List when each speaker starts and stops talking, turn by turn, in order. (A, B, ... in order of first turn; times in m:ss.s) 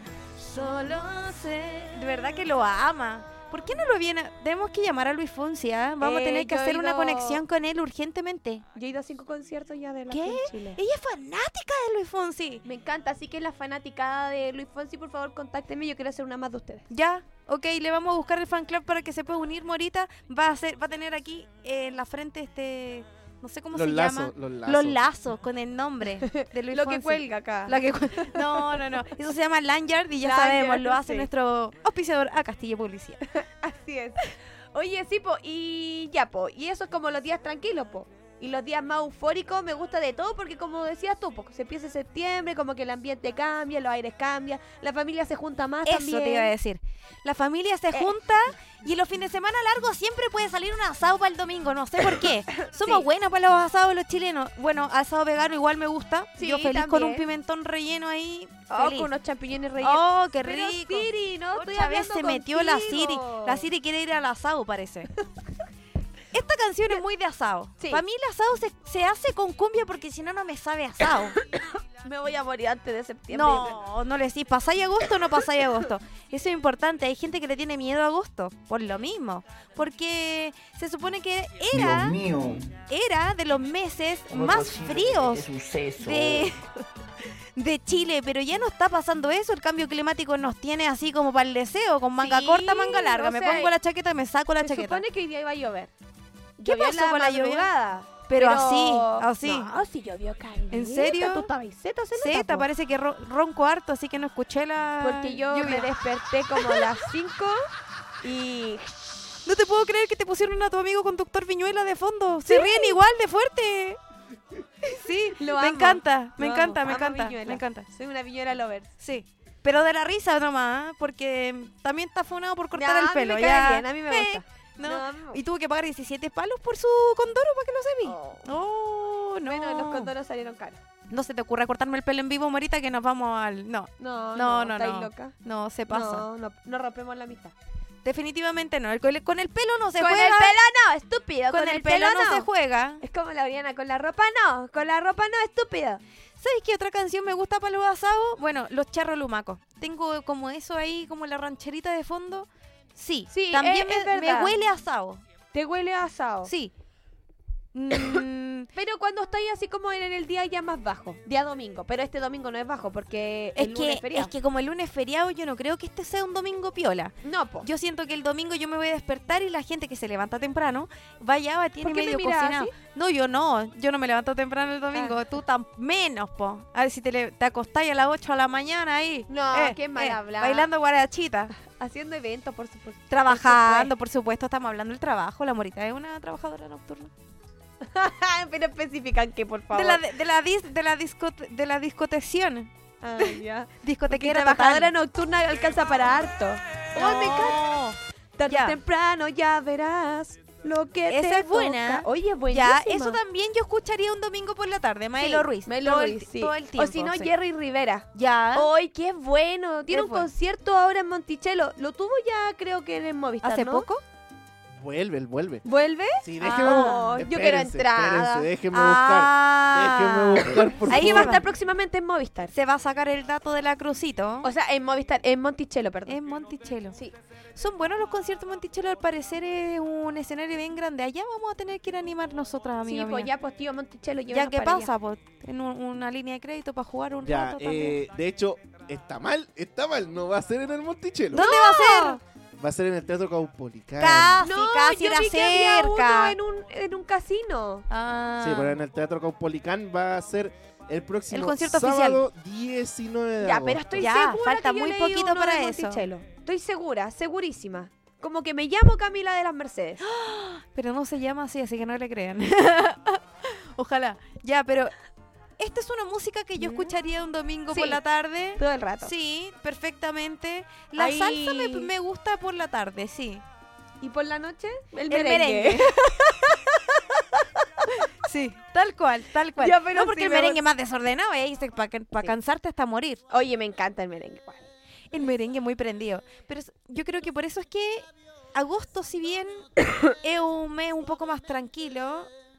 0:00.4-0:08.6 A
0:06.0-0:07.4 B
0:08.7-0:10.8 B
0:10.1-0:12.6 A
0:12.6-0:16.8 B
0:16.9-0:33.2 A
0:23.7-0:25.0 C
0:26.4-0:28.8 B
0:30.2-0:31.3 B
0:33.3-0:46.5 B
0:45.8-0:59.1 A
0:52.6-0:53.0 B
0:56.4-0:57.2 B
0:58.7-1:03.6 B
0:59.8-1:05.1 A
1:06.3-1:11.4 A
1:12.0-1:13.8 B
1:13.3-1:22.2 A
1:21.7-1:22.7 D
1:22.9-1:26.6 A
1:24.3-1:26.5 D
1:27.6-1:35.0 A
1:32.2-1:33.7 B
1:34.6-1:35.9 B
1:36.6-1:42.7 B
1:36.6-1:37.7 A
1:38.3-1:39.7 A
1:40.7-1:41.5 A
1:42.2-1:45.9 A
1:45.0-1:47.6 B
1:46.6-1:46.8 A
1:48.2-1:49.2 B
1:49.4-1:54.0 A
1:52.4-1:53.0 B
1:54.9-1:57.9 A
1:55.4-1:58.9 B
1:59.0-2:10.1 A
2:02.7-2:05.4 B
2:08.0-2:08.5 B
2:09.5-2:10.8 B
2:11.1-2:16.2 A
2:14.0-2:15.3 B
2:15.9-2:17.5 B
2:18.0-2:20.6 A
2:20.0-2:22.4 B
2:21.5-2:23.0 A
2:23.0-2:26.0 B
2:26.4-2:35.2 A
2:33.3-2:34.6 B
2:35.5-2:36.5 B
2:36.4-2:36.7 A
2:37.7-2:38.7 A
2:38.7-2:44.3 B
2:43.6-3:01.5 A
2:47.2-2:47.7 B
2:51.8-2:52.7 B
2:59.3-3:00.7 B
3:01.6-3:03.9 B
3:03.1-3:07.1 A
3:07.8-3:10.0 B
3:09.7-3:14.9 A
3:13.0-3:17.6 B
3:17.0-3:18.0 A
3:18.4-3:23.2 B
3:18.5-3:18.8 A
3:21.1-3:27.3 A
3:25.2-3:33.9 B
3:28.1-3:28.7 A
3:29.9-3:30.3 A
3:33.4-3:34.0 A
3:34.7-3:35.6 C
3:35.6-3:38.5 B
3:36.2-3:41.4 C
3:36.4-3:37.2 A
3:38.7-3:41.4 A
3:40.8-3:42.5 B
3:42.5-3:44.5 A
3:44.4-3:46.2 B
3:46.1-3:46.9 A
3:47.6-3:53.3 A
3:52.8-3:54.9 B
3:54.3-3:58.0 A
3:57.2-4:01.5 C
4:01.3-4:02.2 B
4:01.3-4:02.2 A
4:02.6-4:04.4 C
4:04.0-4:06.4 A
4:04.4-4:07.8 B
4:07.9-4:08.8 A
4:08.4-4:14.1 C
4:11.3-4:12.2 A
4:13.4-4:20.0 B
4:14.0-4:16.0 A
4:20.0-4:24.9 A
4:25.6-4:33.4 A
4:26.6-4:26.9 B
4:27.7-4:28.0 B
4:28.6-4:29.1 B
4:31.0-4:31.9 B
4:34.0-4:37.6 B
4:35.1-4:36.0 A
4:38.2-4:43.2 A
4:39.6-4:40.6 B
4:43.3-4:44.6 B
4:45.1-4:52.3 A